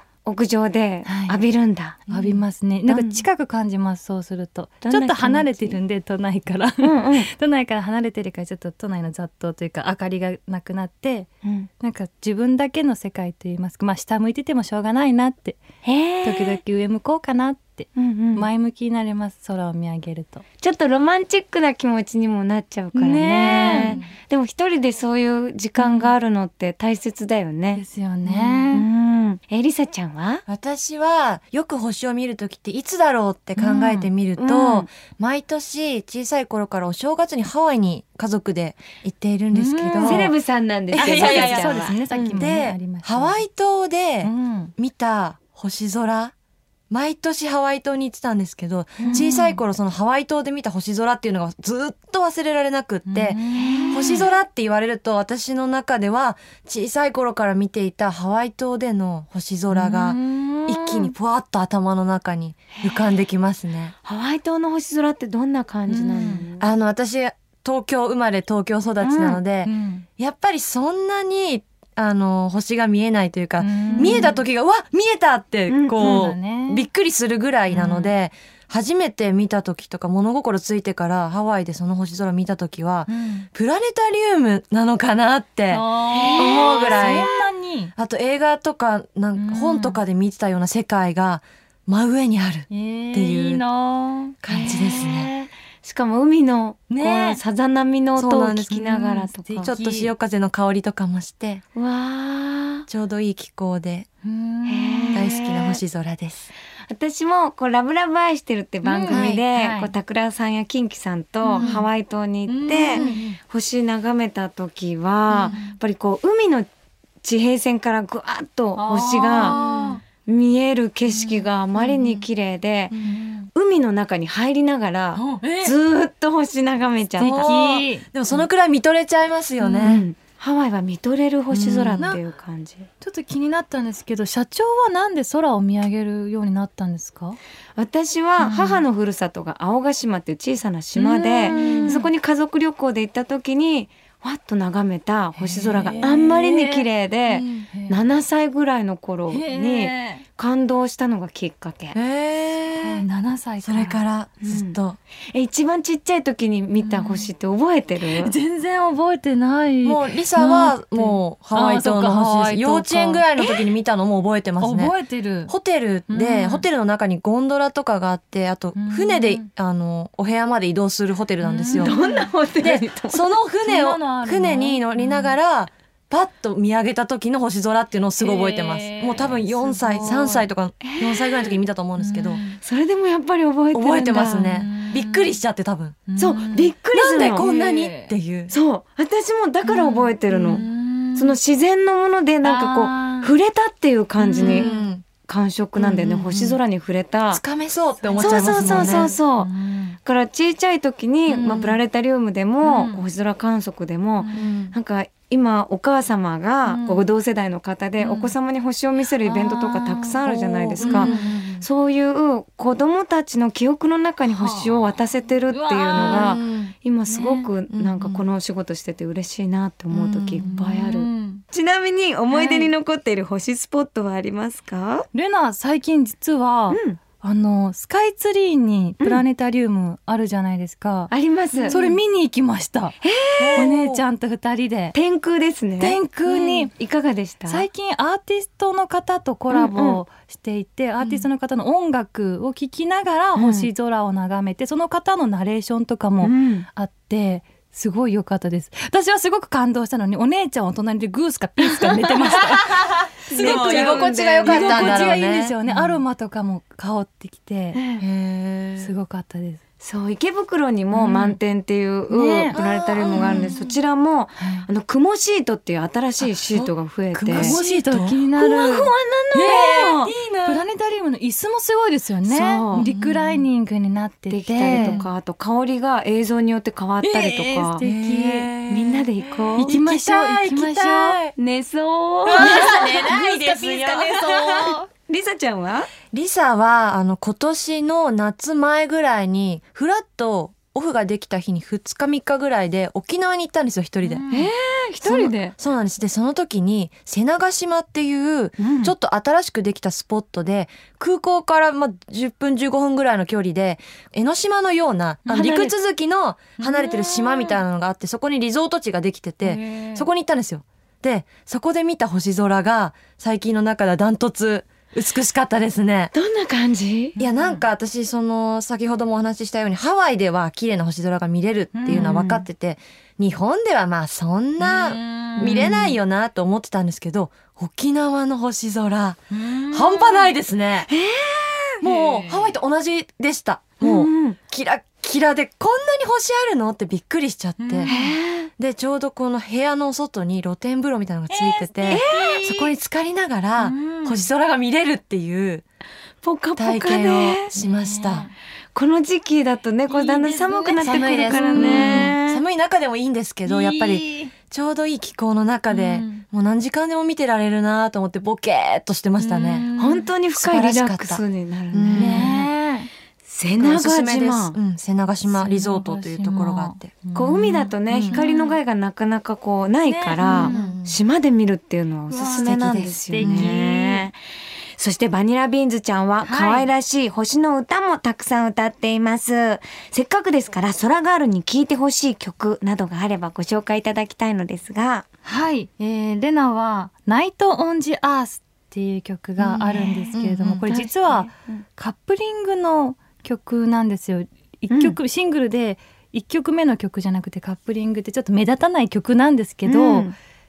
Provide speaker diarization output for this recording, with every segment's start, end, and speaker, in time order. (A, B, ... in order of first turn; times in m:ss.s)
0:00.2-0:02.0 A
0:01.1-0:01.4 B
0:02.1-0:02.4 C
0:02.1-0:11.3 B
0:02.9-0:03.3 A
0:04.8-0:05.8 A
0:06.8-0:07.3 A
0:11.8-0:15.6 B
0:15.8-0:16.6 A
0:16.2-0:20.4 B
0:18.0-0:18.5 A
0:20.6-0:27.8 A
0:22.9-0:24.0 B
0:23.5-0:24.1 C
0:25.8-0:26.1 B
0:27.8-0:28.8 B
0:28.3-0:28.6 C
0:28.7-0:30.4 A
0:30.5-0:40.3 C
0:33.6-0:34.1 B
0:34.4-0:34.9 A
0:39.5-0:40.3 B
0:40.0-0:42.4 A
0:40.9-0:46.3 C
0:41.0-0:43.4 B
0:44.2-0:44.7 B
0:46.9-1:04.0 C
0:49.0-0:49.3 A
0:49.0-0:49.6 B
0:53.1-0:54.2 B
0:53.6-0:54.3 A
0:59.7-1:01.1 B
1:02.8-1:03.1 A
1:04.0-1:06.7 A
1:06.1-1:06.4 B
1:06.6-1:27.3 C
1:09.0-1:09.4 A
1:09.6-1:10.1 B
1:13.6-1:14.4 B
1:13.9-1:14.3 A
1:15.7-1:16.3 A
1:16.0-1:16.9 B
1:17.7-1:18.1 B
1:23.1-1:23.5 B
1:25.7-1:27.9 B
1:26.1-1:27.4 A
1:28.0-1:33.6 C
1:29.4-1:30.0 B
1:32.7-1:35.2 B
1:34.4-1:35.3 C
1:34.5-1:39.7 A
1:36.9-1:37.4 B
1:38.2-1:38.8 C
1:38.7-1:40.1 B
1:39.6-1:41.6 C
1:41.8-1:42.8 A
1:42.9-1:44.1 C
1:44.2-1:45.3 B
1:44.7-1:45.8 A
1:45.1-1:46.5 C
1:46.9-1:56.7 A
1:48.8-1:49.9 B
1:49.1-1:49.4 C
1:51.4-1:51.9 B
1:51.5-1:51.8 C
1:52.5-1:53.2 B
1:52.9-1:53.4 C
1:55.3-1:55.6 C
1:55.5-1:55.8 B
1:57.2-1:59.6 A
1:58.8-2:00.0 B
1:59.4-2:00.0 C
2:00.3-2:03.0 A
2:01.1-2:01.4 B
2:02.9-2:03.2 C
2:03.0-2:03.5 B
2:03.5-2:07.5 A
2:05.2-2:05.8 B
2:07.2-2:10.0 C
2:07.2-2:08.1 B
2:09.6-2:09.9 B
2:09.8-2:12.9 A
2:11.5-2:12.2 C
2:13.0-2:17.4 B
2:17.8-2:32.0 A
2:18.4-2:18.8 B
2:21.0-2:22.1 B
2:21.5-2:22.0 C
2:25.4-2:26.8 B
2:25.5-2:26.1 C
2:27.3-2:27.7 C
2:27.7-2:28.0 B
2:29.3-2:30.2 B
2:31.9-2:33.1 C
2:32.8-2:34.0 B
2:33.6-2:35.0 C
2:34.4-2:34.8 A
2:35.3-2:38.3 A
2:36.8-2:37.3 B
2:38.2-2:43.5 B
2:39.8-2:44.9 C
2:44.6-2:45.5 B
2:45.5-2:52.0 C
2:46.1-2:46.7 B
2:48.8-2:49.5 B
2:51.4-2:52.3 B
2:51.8-2:53.2 A
2:52.6-3:02.4 C
2:53.6-2:55.3 B
2:58.2-3:00.5 B
3:00.8-3:01.6 A
3:02.0-3:02.6 B
3:02.6-3:04.6 A
3:03.7-3:06.0 C
3:04.5-3:05.4 B
3:06.1-3:06.7 B
3:06.2-3:07.5 A
3:06.9-3:08.5 C
3:07.4-3:08.1 B
3:08.5-3:10.6 A
3:09.6-3:11.4 B
3:11.2-3:14.7 A
3:12.4-3:13.3 B
3:14.2-3:14.9 B
3:14.4-3:15.0 C
3:15.2-3:17.4 A
3:15.8-3:16.6 C
3:17.3-3:19.1 C
3:18.0-3:20.0 B
3:18.2-3:19.5 A
3:20.0-3:45.1 A
3:21.3-3:21.8 B
3:22.6-3:23.0 B
3:24.2-3:24.5 B
3:24.3-3:24.8 C
3:26.7-3:27.1 B
3:28.0-3:28.4 B
3:29.2-3:31.6 B
3:30.3-3:31.4 C
3:34.3-3:34.9 B
3:35.5-3:36.4 B
3:36.0-3:36.7 C
3:37.1-3:37.5 B
3:37.7-3:38.2 C
3:39.9-3:40.4 C
3:40.4-3:41.4 B
3:42.3-3:42.7 B
3:45.1-3:51.1 B
3:46.7-3:47.0 A
3:51.1-3:51.8 A
3:51.6-3:51.9 C
3:51.6-3:53.0 B
3:53.0-3:53.7 A
3:53.4-3:54.0 C
3:53.6-3:55.0 B
3:54.9-3:57.7 A
3:55.8-3:56.7 B
3:57.5-4:17.8 B
3:59.5-4:00.0 A
4:01.0-4:01.3 A
4:03.4-4:03.7 A
4:06.2-4:06.7 A
4:12.8-4:15.6 C
4:13.3-4:15.2 A
4:17.7-4:18.0 A
4:18.0-4:18.9 C
4:18.8-4:19.6 B
4:19.8-4:27.6 A
4:20.9-4:21.4 B
4:22.1-4:22.6 B
4:22.5-4:23.8 C
4:23.1-4:23.6 B
4:24.4-4:24.7 B
4:26.5-4:28.2 C
4:27.3-4:35.0 B
4:28.4-4:30.1 A
4:30.0-4:30.7 C
4:32.3-4:32.9 A
4:32.7-4:33.4 C
4:34.3-4:37.8 A
4:34.7-4:35.1 C
4:37.0-4:38.5 B
4:37.8-4:41.4 C
4:38.7-4:39.7 A
4:39.6-4:41.2 B
4:41.4-4:42.9 A
4:42.3-4:44.9 B
4:42.4-4:44.8 C
4:45.1-4:45.9 A
4:46.1-4:54.2 C
4:54.0-4:54.5 B
4:54.3-4:55.6 A
4:55.0-5:16.1 C
4:58.6-4:58.9 A
5:05.3-5:05.8 A
5:06.6-5:07.6 A
5:09.4-5:10.0 B
5:16.1-5:17.2 A
5:17.2-5:17.6 B
5:17.2-5:30.9 C
5:21.7-5:22.2 B
5:21.9-5:22.4 A
5:24.6-5:25.9 B
5:25.4-5:25.9 A
5:29.3-5:30.3 B
5:30.9-5:31.8 A
5:31.8-5:32.5 B
5:31.8-5:37.9 C
5:33.8-5:34.4 A
5:37.6-5:38.2 B
5:37.9-5:38.5 A
5:38.6-5:45.6 C
5:41.3-5:42.7 B
5:41.9-5:42.4 A
5:43.6-5:44.3 B
5:46.2-5:47.5 A
5:46.6-5:48.3 C
5:47.5-5:48.3 B
5:48.8-5:52.4 A
5:49.9-5:52.2 B
5:50.8-5:59.7 C
5:53.5-5:54.3 B
5:55.7-5:56.2 B
5:59.2-6:00.1 B
5:59.8-6:02.4 A
6:00.4-6:02.4 C
6:01.9-6:02.9 B
6:03.3-6:04.6 A
6:03.6-6:06.9 C
6:05.3-6:08.6 B
6:07.2-6:14.2 A
6:07.9-6:08.2 C
6:09.9-6:10.8 B
6:10.2-6:11.0 C
6:12.1-6:12.6 B
6:12.3-6:13.5 C
6:13.1-6:14.1 B
6:14.8-6:25.0 A
6:16.2-6:16.7 B
6:25.2-6:40.1 B
6:29.5-6:30.1 A
6:30.1-6:30.9 C
6:31.1-6:31.6 A
6:34.7-6:35.0 A
6:39.6-6:40.1 A